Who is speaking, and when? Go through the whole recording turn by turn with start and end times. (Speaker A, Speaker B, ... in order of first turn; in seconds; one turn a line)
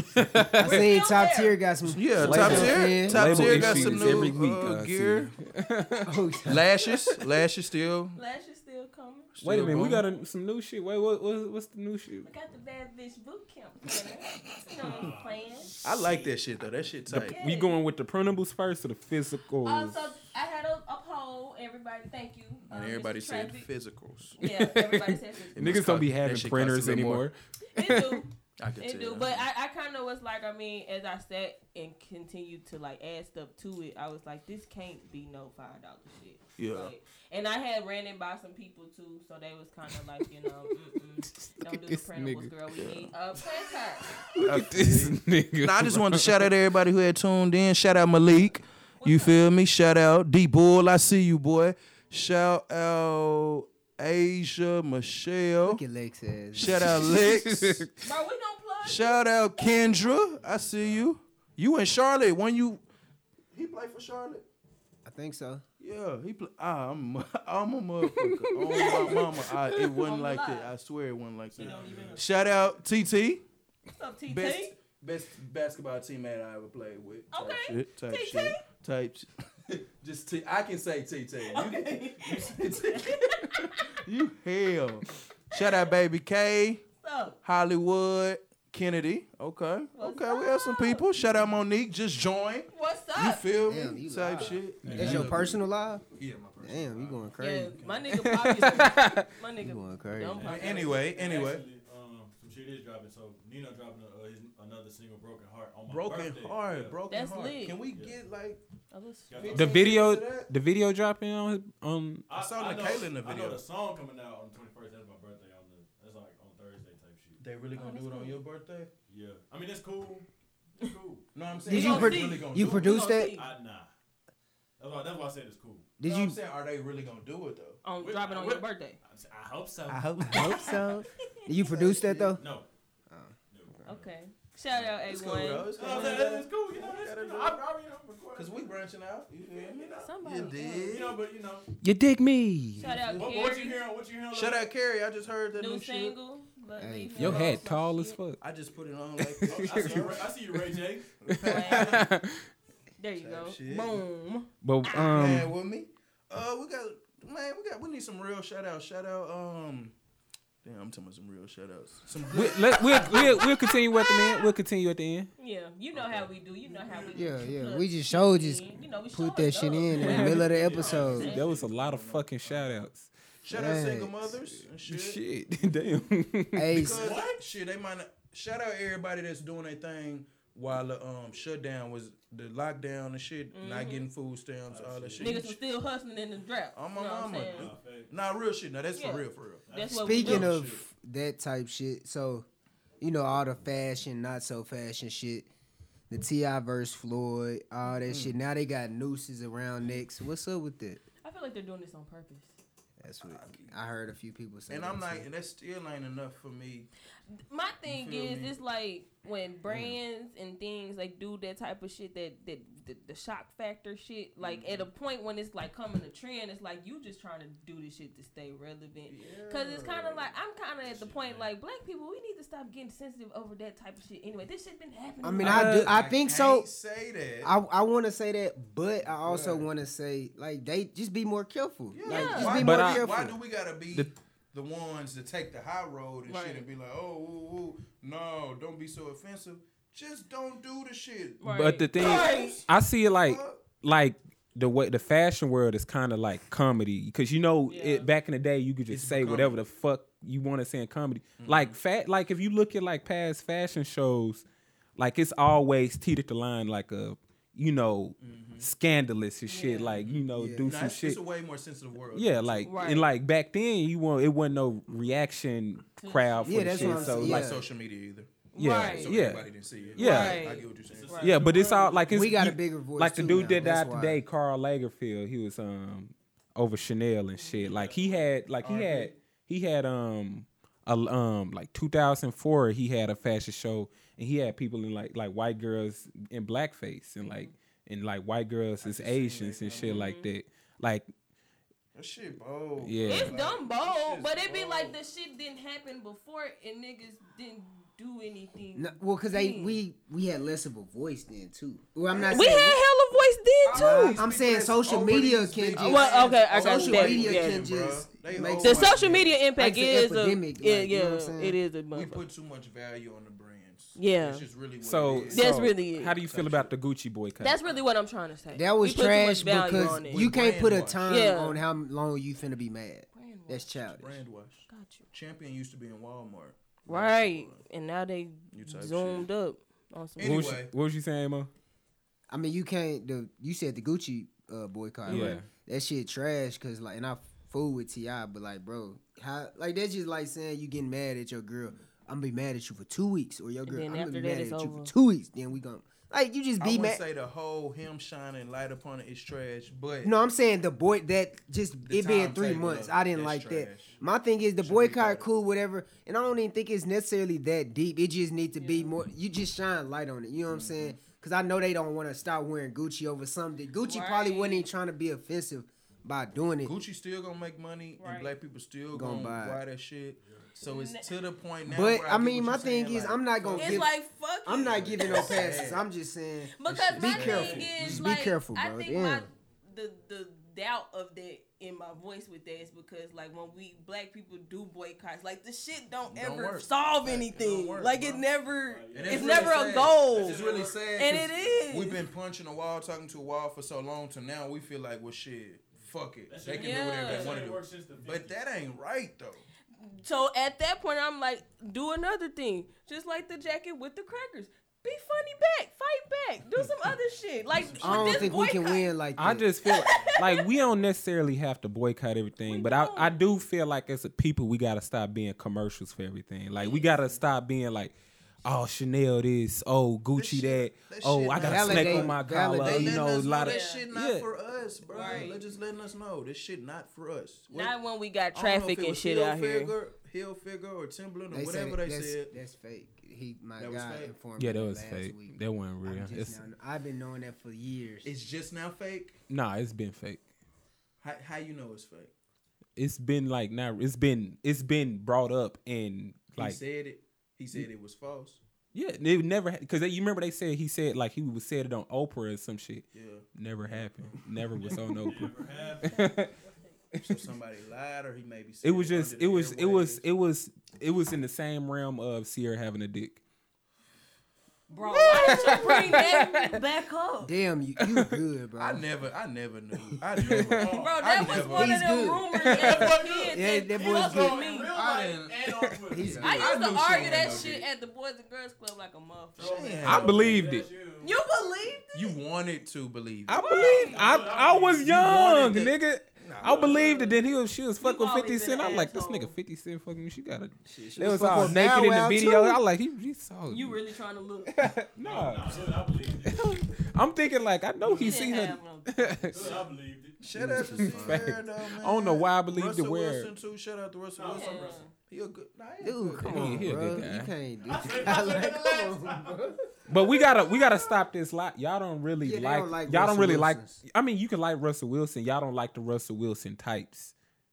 Speaker A: 0.1-0.9
Speaker B: 0.5-4.3
Speaker C: 0.6-1.6
Speaker D: 1.8-5.3
Speaker A: 2.2-6.4
Speaker C: 5.6-5.9
Speaker B: 6.0-6.7
Speaker D: 6.5-8.2
Speaker C: 8.1-9.3
Speaker D: 9.3-10.1
Speaker A: 9.4-12.3
Speaker C: 12.2-15.7
Speaker E: 14.8-15.7
Speaker D: 15.8-17.4
Speaker A: 17.1-20.1
Speaker C: 17.1-17.8
Speaker C: 19.6-23.7
Speaker D: 22.7-24.4
Speaker C: 24.4-25.8
Speaker A: 24.4-28.2
Speaker D: 25.6-27.3
Speaker C: 27.7-44.1
Speaker D: 28.6-29.5
Speaker D: 36.6-36.9
Speaker A: 41.3-42.9
Speaker A: 44.2-46.5
Speaker D: 44.4-55.8
Speaker C: 49.0-49.5
Speaker B: 55.6-56.8
Speaker D: 56.5-57.9
Speaker A: 56.7-57.9
Speaker C: 58.0-60.1
Speaker D: 58.8-62.8
Speaker E: 60.3-61.1
Speaker D: 63.5-64.4
Speaker B: 65.0-65.6
Speaker D: 65.8-73.4
Speaker A: 68.0-69.9
Speaker C: 70.0-70.7
Speaker E: 71.5-72.2
Speaker C: 71.6-72.3
Speaker C: 73.9-74.7
Speaker D: 74.3-86.8
Speaker C: 77.3-78.6
Speaker C: 81.5-83.9
Speaker C: 85.5-85.9
Speaker C: 87.0-87.4
Speaker D: 87.4-95.6
Speaker C: 90.0-91.1
Speaker C: 92.7-93.5
Speaker B: 93.7-96.0
Speaker E: 94.8-95.5
Speaker D: 96.2-98.1
Speaker B: 96.6-97.8
Speaker C: 97.4-101.0
Speaker A: 98.1-99.2
Speaker B: 99.6-100.5
Speaker E: 100.4-107.0
Speaker D: 100.4-101.6
Speaker D: 105.9-108.6
Speaker C: 107.1-107.8
Speaker E: 107.9-108.2
Speaker C: 108.9-109.9
Speaker E: 109.3-109.8
Speaker D: 109.4-110.5
Speaker A: 109.5-112.2
Speaker E: 112.3-117.4
Speaker D: 112.3-113.6
Speaker D: 117.4-118.9
Speaker C: 117.7-118.4
Speaker E: 119.1-120.3
Speaker E: 120.8-122.0
Speaker D: 121.3-123.0
Speaker B: 121.7-123.3
Speaker C: 121.7-123.5
Speaker E: 123.3-123.9
Speaker E: 124.8-125.9
Speaker B: 126.0-126.4
Speaker D: 126.0-127.8
Speaker C: 127.8-129.0
Speaker E: 128.0-130.8
Speaker D: 129.9-130.8
Speaker B: 130.2-132.4
Speaker D: 131.7-132.4
Speaker E: 132.4-132.7
Speaker B: 133.1-133.3
Speaker E: 133.5-134.1
Speaker C: 133.8-136.3
Speaker D: 135.0-137.6
Speaker E: 135.8-138.8
Speaker D: 138.3-141.2
Speaker E: 139.5-140.1
Speaker C: 140.0-141.0
Speaker E: 140.9-141.7
Speaker B: 141.8-143.0
Speaker C: 142.8-143.8
Speaker E: 143.1-144.7
Speaker D: 144.3-146.2
Speaker C: 145.5-148.2
Speaker B: 146.8-147.6
Speaker A: 147.2-148.4
Speaker D: 148.4-150.2
Speaker A: 149.2-150.2
Speaker E: 149.5-151.1
Speaker D: 151.2-152.0
Speaker A: 151.3-152.4
Speaker C: 151.4-152.0
Speaker C: 153.0-155.1
Speaker D: 153.2-154.0
Speaker A: 154.6-155.5
Speaker D: 154.9-159.9
Speaker D: 160.6-163.4
Speaker A: 162.3-165.3
Speaker C: 162.6-164.5
Speaker C: 165.4-171.4
Speaker E: 166.8-167.2
Speaker B: 167.1-171.3
Speaker A: 170.0-170.5
Speaker E: 170.0-171.8
Speaker D: 170.6-172.7
Speaker A: 171.2-173.1
Speaker D: 173.4-175.2
Speaker B: 173.5-174.5
Speaker A: 174.8-176.9
Speaker B: 176.5-177.2
Speaker D: 176.7-185.6
Speaker E: 177.0-177.4
Speaker C: 183.5-184.1
Speaker E: 184.7-185.4
Speaker C: 185.2-187.7
Speaker D: 186.7-190.8
Speaker E: 187.5-188.1
Speaker C: 188.9-190.5
Speaker E: 189.7-190.5
Speaker B: 189.9-192.4
Speaker B: 193.0-195.5
Speaker B: 196.1-201.0
Speaker D: 197.9-198.4
Speaker C: 201.2-202.6
Speaker B: 203.0-205.3
Speaker D: 203.2-203.7
Speaker D: 204.7-206.9
Speaker C: 207.4-225.8
Speaker D: 207.8-208.6
Speaker D: 214.4-214.9
Speaker D: 219.1-220.3
Speaker D: 220.9-221.4
Speaker E: 221.0-221.4
Speaker B: 225.2-226.7
Speaker A: 225.4-226.0
Speaker D: 225.6-227.5
Speaker B: 227.4-233.4
Speaker D: 229.0-229.7
Speaker D: 231.9-241.4
Speaker C: 232.0-232.6
Speaker A: 232.6-233.1
Speaker C: 236.2-236.7
Speaker C: 241.4-242.6
Speaker A: 241.4-254.4
Speaker D: 242.0-243.6
Speaker C: 247.7-248.1
Speaker D: 248.9-249.6
Speaker D: 251.4-251.8
Speaker A: 255.0-261.2
Speaker D: 258.2-258.7
Speaker C: 259.5-260.0
Speaker D: 260.0-262.7
Speaker B: 260.3-260.8
Speaker A: 262.1-267.6
Speaker C: 262.6-263.1
Speaker C: 266.0-267.2
Speaker B: 266.4-267.7
Speaker D: 266.8-271.3
Speaker C: 268.5-269.1
Speaker A: 268.6-270.4
Speaker E: 269.7-270.1
Speaker C: 270.0-271.9
Speaker E: 270.8-272.2
Speaker A: 271.2-291.1
Speaker B: 272.1-274.2
Speaker C: 277.4-277.6
Speaker E: 277.6-278.3
Speaker D: 278.6-279.1
Speaker C: 287.2-287.5
Speaker D: 288.8-290.0
Speaker C: 289.7-290.3
Speaker D: 291.9-294.9
Speaker A: 292.8-293.4
Speaker C: 293.0-299.8
Speaker B: 298.7-302.8
Speaker D: 302.1-302.5
Speaker C: 302.3-304.2
Speaker D: 303.6-309.4
Speaker B: 303.7-311.6
Speaker C: 305.7-307.7
Speaker C: 308.6-312.2
Speaker D: 311.9-316.7
Speaker C: 313.9-314.5
Speaker A: 314.8-317.6
Speaker C: 315.3-316.1
Speaker C: 317.4-320.3
Speaker B: 318.5-324.2
Speaker D: 319.7-321.3
Speaker C: 321.1-321.6
Speaker C: 323.1-323.8
Speaker D: 323.8-327.6
Speaker C: 324.7-325.0
Speaker C: 326.9-330.5
Speaker D: 328.5-329.3
Speaker D: 330.2-330.7
Speaker A: 330.2-331.5
Speaker B: 332.3-347.0
Speaker C: 335.1-335.4
Speaker A: 335.1-335.5
Speaker C: 343.6-344.9
Speaker D: 346.6-350.1
Speaker B: 350.0-366.8
Speaker D: 351.9-354.0
Speaker D: 354.6-355.3
Speaker C: 358.6-358.9
Speaker D: 360.5-361.0
Speaker C: 363.8-364.7
Speaker D: 366.6-373.9
Speaker C: 368.0-368.3
Speaker B: 368.9-369.6
Speaker E: 370.2-370.5
Speaker C: 370.7-371.1
Speaker B: 371.6-373.9
Speaker C: 373.6-375.5
Speaker B: 374.4-379.3
Speaker D: 374.6-375.9
Speaker C: 376.5-392.0
Speaker D: 376.6-378.1
Speaker D: 386.1-388.3
Speaker E: 388.6-391.6
Speaker D: 388.9-399.4
Speaker E: 396.3-398.4
Speaker C: 396.5-397.4
Speaker C: 399.8-408.9
Speaker D: 407.5-408.5
Speaker B: 407.8-409.5
Speaker A: 409.1-424.3
Speaker C: 409.6-410.5
Speaker C: 412.4-413.2
Speaker C: 416.6-416.9
Speaker D: 420.1-427.7
Speaker B: 421.4-423.2
Speaker C: 423.3-423.9
Speaker C: 424.9-425.4
Speaker C: 427.5-429.7
Speaker D: 428.3-432.3
Speaker B: 431.3-438.1
Speaker D: 433.6-434.2
Speaker A: 434.4-436.4
Speaker D: 438.0-439.2
Speaker A: 439.3-440.2
Speaker D: 441.0-442.1
Speaker A: 442.8-446.6
Speaker D: 446.4-448.4
Speaker A: 448.7-456.3
Speaker D: 452.9-453.9
Speaker E: 454.6-456.0
Speaker C: 455.4-456.8
Speaker A: 456.9-457.2
Speaker D: 457.0-460.0
Speaker A: 458.6-463.2
Speaker C: 464.7-467.3
Speaker A: 465.0-466.6
Speaker D: 465.2-465.6
Speaker B: 467.2-468.9
Speaker A: 467.8-468.2
Speaker D: 468.6-472.0
Speaker E: 470.1-471.4
Speaker A: 470.2-470.6
Speaker C: 470.7-474.7
Speaker B: 471.4-474.5
Speaker E: 472.5-476.3
Speaker D: 474.7-475.4
Speaker A: 475.4-475.8
Speaker B: 475.9-477.1
Speaker D: 476.0-477.7
Speaker C: 476.2-479.5
Speaker E: 479.4-481.1
Speaker D: 479.4-480.6
Speaker A: 479.8-480.7
Speaker C: 481.0-482.2
Speaker D: 481.9-483.9
Speaker A: 483.3-493.8
Speaker C: 483.3-484.0
Speaker E: 483.6-485.3
Speaker D: 484.8-486.9
Speaker E: 486.4-486.9
Speaker C: 486.5-487.1
Speaker C: 487.8-489.3
Speaker D: 490.8-491.4
Speaker B: 490.9-492.6
Speaker C: 493.5-494.6
Speaker A: 494.5-499.5
Speaker E: 495.0-496.6
Speaker E: 497.8-498.3
Speaker C: 498.0-499.6
Speaker E: 499.3-500.6
Speaker D: 500.2-506.8
Speaker B: 500.3-501.4
Speaker A: 500.8-503.3
Speaker E: 504.1-504.9
Speaker C: 504.3-504.9
Speaker B: 505.8-509.7
Speaker A: 506.2-507.3
Speaker E: 507.6-509.5
Speaker A: 509.9-517.1
Speaker B: 512.2-513.8